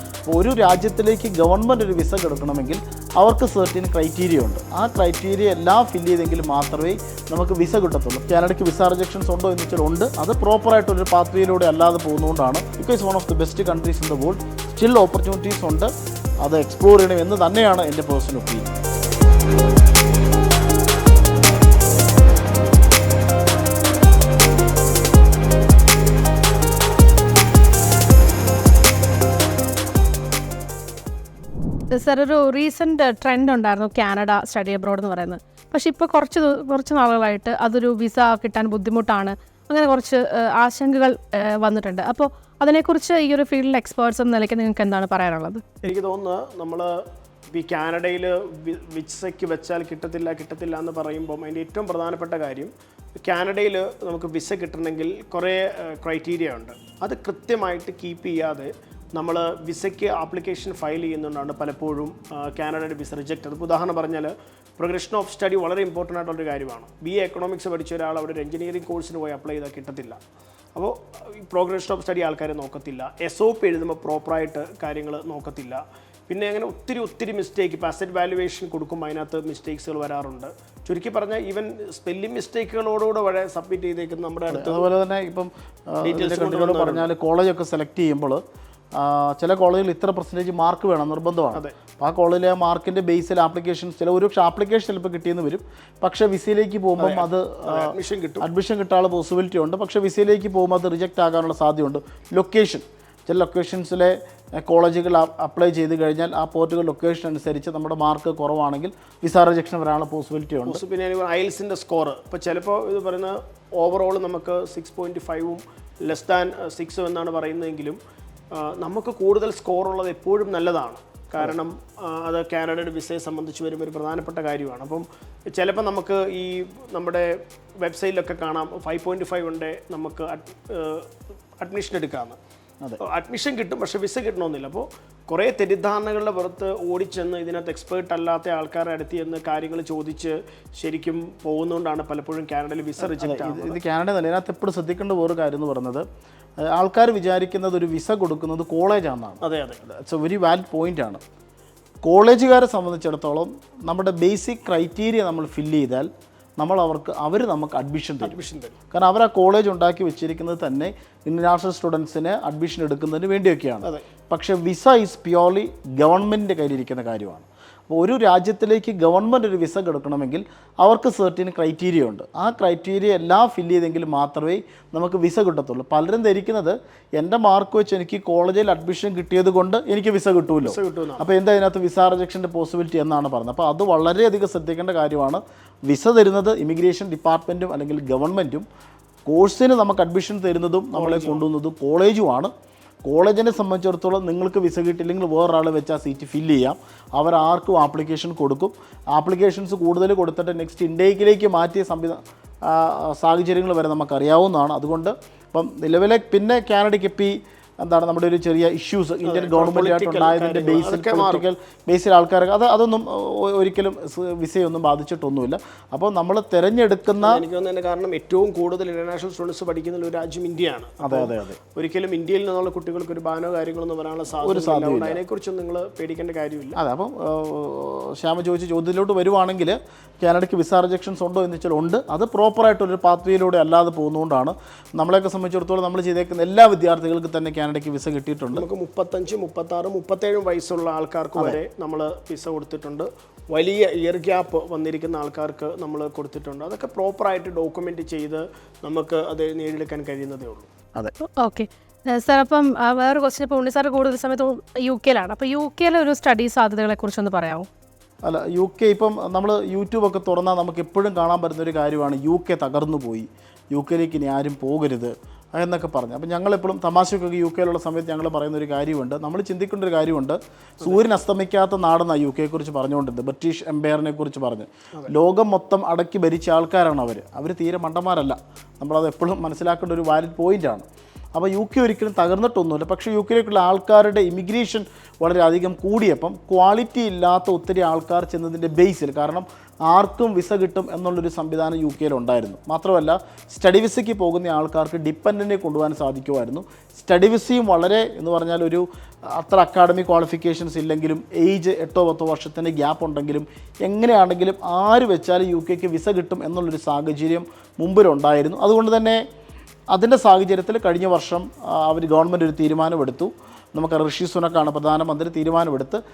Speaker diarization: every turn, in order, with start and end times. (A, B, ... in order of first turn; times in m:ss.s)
0:00.3-0:15.9 A
0:16.4-0:18.8 A
0:31.9-0:45.6 B
0:45.8-1:10.2 C
1:10.8-1:24.9 C
1:24.5-1:28.4 A
1:26.0-1:27.1 C
1:29.0-1:50.8 A
1:37.0-1:38.5 C
1:50.7-1:58.0 C
1:58.5-2:12.4 C
2:13.0-2:23.8 C
2:23.0-2:26.0 A
2:26.6-2:31.2 A
2:29.4-2:29.8 C
2:32.0-2:38.4 A
2:38.2-2:38.8 C
2:38.9-3:08.7 A
3:00.6-3:01.3 C
3:09.3-3:12.5 A
3:10.9-3:11.4 C
3:13.0-3:37.4 A
3:29.2-3:31.5 C
3:37.2-3:46.8 C
3:41.0-3:41.6 A
3:44.4-3:45.2 A
3:46.8-3:58.7 A
3:58.5-4:10.7 C
4:11.2-4:17.7 B
4:18.2-5:09.2 A
5:09.9-5:16.0 A